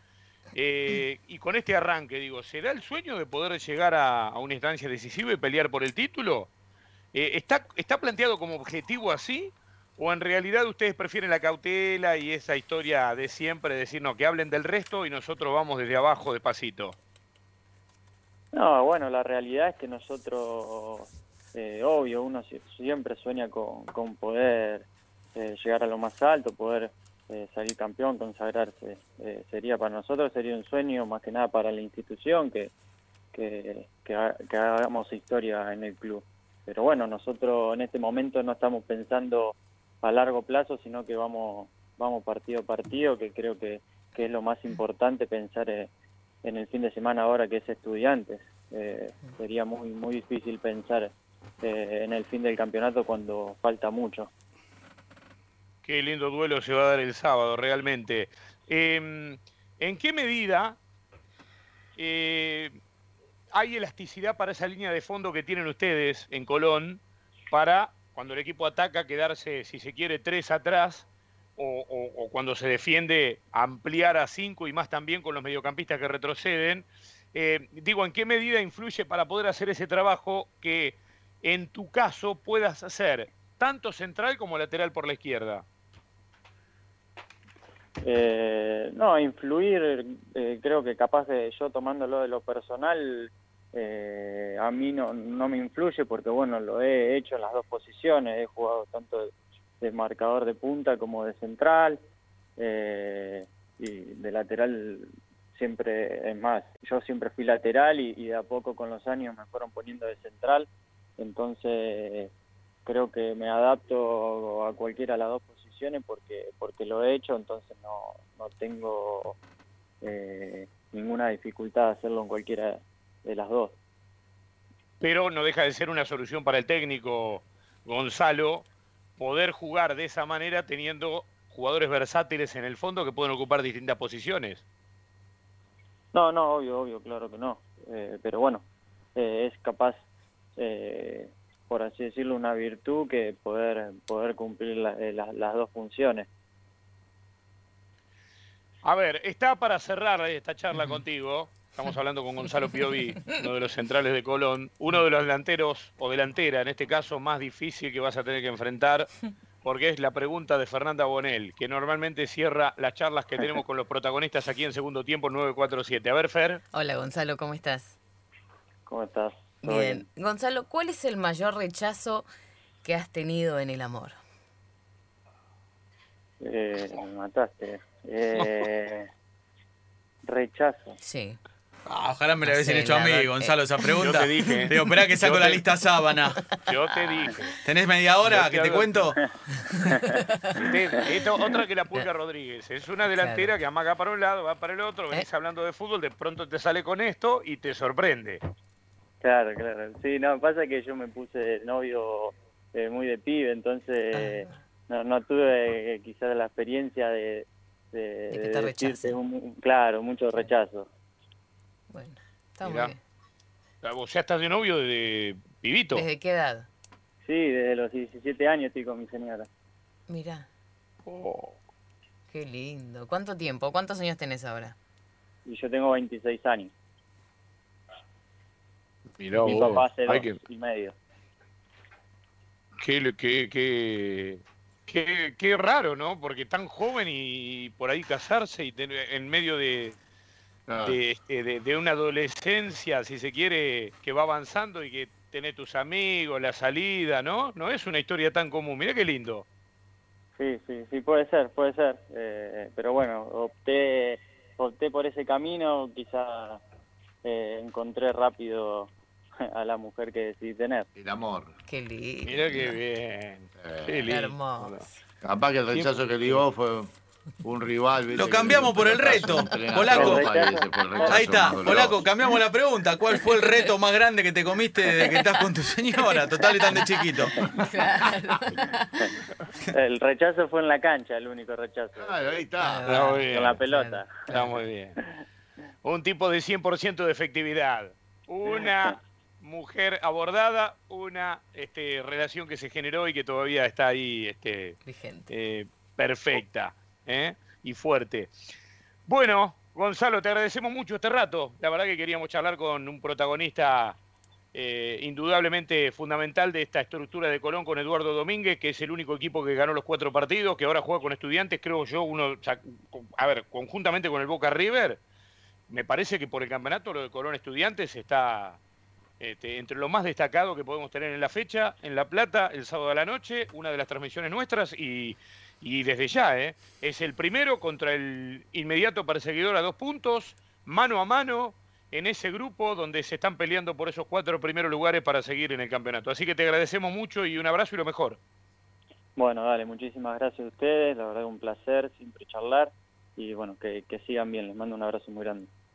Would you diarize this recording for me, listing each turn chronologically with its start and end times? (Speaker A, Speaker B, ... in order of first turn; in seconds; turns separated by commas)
Speaker A: 0.5-6.5, Speaker A: 7.1-17.0, Speaker B: 18.5-32.7, Speaker B: 33.3-45.9, Speaker B: 46.4-51.1, Speaker B: 51.6-54.3, Speaker A: 55.8-60.8, Speaker A: 62.0-62.8, Speaker A: 63.5-85.7, Speaker B: 88.0-102.0, Speaker B: 102.6-112.3, Speaker B: 112.8-119.4, Speaker B: 120.0-123.7, Speaker A: 125.0-134.6, Speaker B: 136.1-138.6, Speaker B: 139.2-140.0, Speaker B: 140.6-146.3, Speaker A: 148.8-166.6, Speaker C: 166.7-167.9, Speaker B: 168.8-170.1, Speaker C: 169.6-172.3, Speaker C: 172.8-174.2, Speaker B: 176.4-179.1, Speaker B: 180.2-181.0, Speaker C: 181.0-181.4, Speaker D: 181.9-186.4, Speaker C: 182.4-183.5, Speaker A: 184.0-185.6, Speaker A: 186.6-187.6, Speaker D: 187.6-189.2, Speaker A: 188.2-189.1, Speaker C: 189.6-190.6, Speaker A: 190.6-198.4, Speaker C: 193.1-193.5, Speaker B: 199.2-210.9, Speaker C: 204.1-204.5, Speaker C: 208.3-209.2, Speaker C: 211.9-213.0, Speaker A: 212.6-212.9, Speaker A: 213.8-216.1, Speaker C: 215.9-216.7, Speaker B: 217.2-219.5, Speaker C: 220.1-220.5, Speaker A: 221.0-221.6, Speaker C: 222.3-224.7, Speaker B: 225.4-226.7, Speaker A: 229.2-230.4, Speaker B: 229.3-230.9, Speaker A: 232.8-240.0, Speaker E: 240.7-241.0, Speaker A: 240.8-249.4, Speaker B: 250.4-256.6, Speaker B: 257.2-258.9, Speaker B: 259.5-260.9, Speaker E: 260.9-261.5, Speaker C: 261.7-262.8, Speaker A: 262.2-264.8, Speaker E: 263.6-264.1, Speaker C: 264.1-265.0, Speaker E: 265.2-266.9, Speaker A: 265.7-266.4, Speaker E: 267.4-272.0, Speaker D: 268.1-270.3, Speaker B: 269.9-271.2, Speaker D: 271.0-277.4, Speaker C: 276.7-279.0, Speaker B: 279.7-282.2, Speaker E: 281.9-283.1, Speaker C: 282.6-284.5, Speaker A: 282.8-283.6, Speaker B: 283.3-284.2, Speaker A: 284.3-285.0, Speaker A: 285.8-294.8, Speaker C: 294.8-295.3, Speaker A: 295.3-298.3, Speaker A: 299.1-304.0, Speaker A: 304.5-315.0, Speaker A: 315.7-318.6, Speaker A: 319.2-338.2, Speaker B: 339.1-345.5